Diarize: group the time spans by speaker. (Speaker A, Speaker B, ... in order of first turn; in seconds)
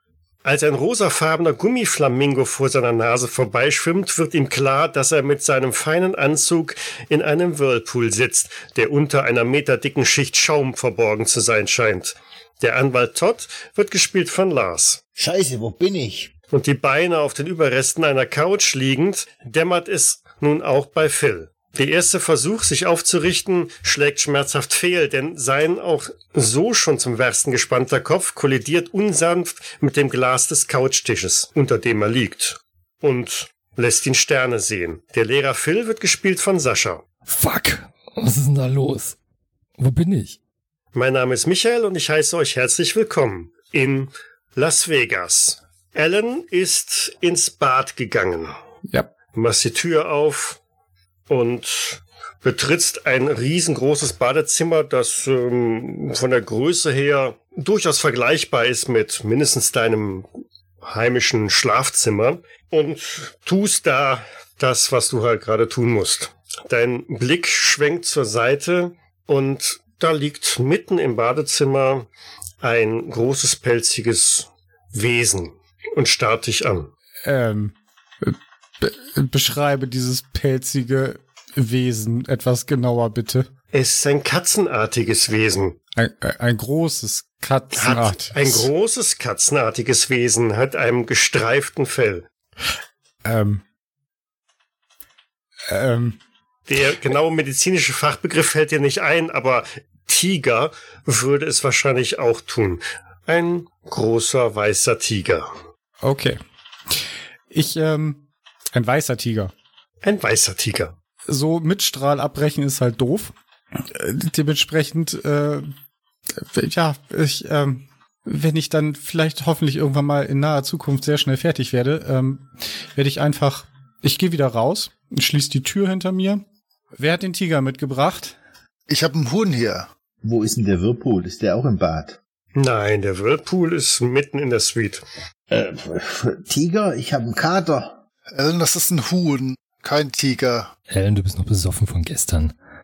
Speaker A: 0.4-15.0, 16.5-37.0, 40.9-48.5, 49.3-50.6, 51.3-60.3, 60.8-72.1, 72.6-76.9, 83.7-85.8, 87.7-92.2, 96.7-105.5, 110.0-110.9, 132.6-135.0
Speaker B: 15.2-16.3, 130.2-132.2, 135.5-138.0
Speaker C: 37.3-39.1, 39.8-40.4, 140.9-142.5
Speaker D: 77.2-83.5, 86.0-88.7, 93.2-93.6, 95.7-96.2, 106.0-106.4, 107.5-109.5, 111.3-115.7, 116.5-126.4, 127.0-128.3
Speaker E: 128.9-129.9, 138.3-140.7